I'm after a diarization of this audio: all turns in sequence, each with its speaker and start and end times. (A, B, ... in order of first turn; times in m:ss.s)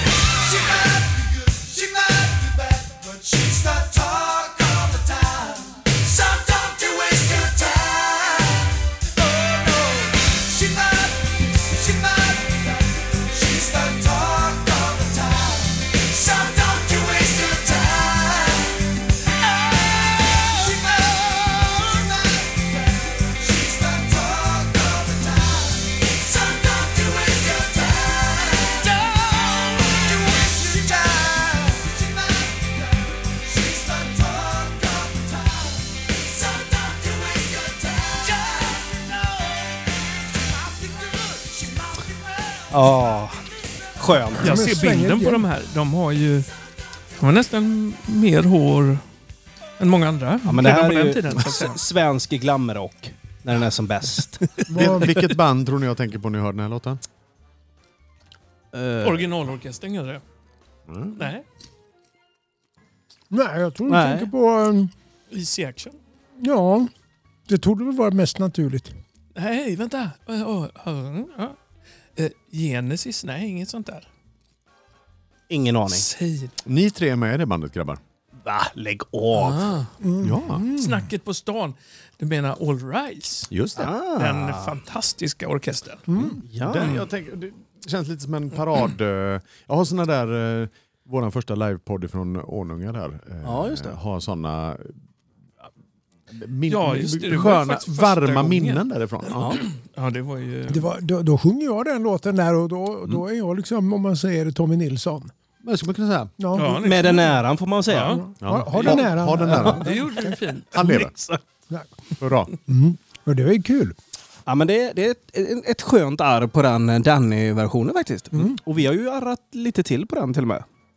0:00.3-0:42.9 A
0:42.7-0:43.4 B
0:44.0-0:44.6 B
0:44.4-0:45.5 C
0:44.4-0:46.5 D
0:47.2-0:49.0 D
0:49.8-0:51.8 D
0:50.5-0:54.5 B
0:54.7-0:55.2 C
0:54.7-0:57.0 E
0:58.7-0:59.3 B
0:59.0-1:00.2 D
1:00.9-1:01.3 E
1:01.2-1:01.4 D
1:03.3-1:04.9 C
1:03.9-1:04.3 B
1:05.3-1:06.0 D
1:06.4-1:06.9 C
1:07.5-1:09.0 C
1:09.4-1:11.6 D
1:12.2-1:14.1 D
1:15.5-1:16.1 B
1:15.9-1:16.5 D
1:16.6-1:18.0 E
1:18.4-1:19.7 B
1:19.3-1:19.9 D
1:20.0-1:21.1 C
1:20.2-1:20.6 E
1:20.8-1:23.5 D
1:23.5-1:23.9 E
1:23.8-1:24.7 B
1:24.2-1:26.1 D
1:26.1-1:26.4 C
1:26.2-1:35.0 E
1:26.4-1:27.0 B
1:33.4-1:34.0 B
1:36.3-1:39.6 E
1:36.7-1:40.9 D
1:40.7-1:45.3 C
1:45.6-1:46.4 E
1:46.4-1:47.2 C
1:46.5-1:48.2 D
1:46.8-1:48.2 B
1:48.0-1:50.4 C
1:48.4-1:50.0 E
1:48.8-1:51.2 D
1:50.7-1:51.1 E
1:51.7-1:52.0 C
1:52.2-1:52.5 E
1:52.7-1:54.0 C
1:54.5-2:00.7 B
1:58.3-1:58.6 C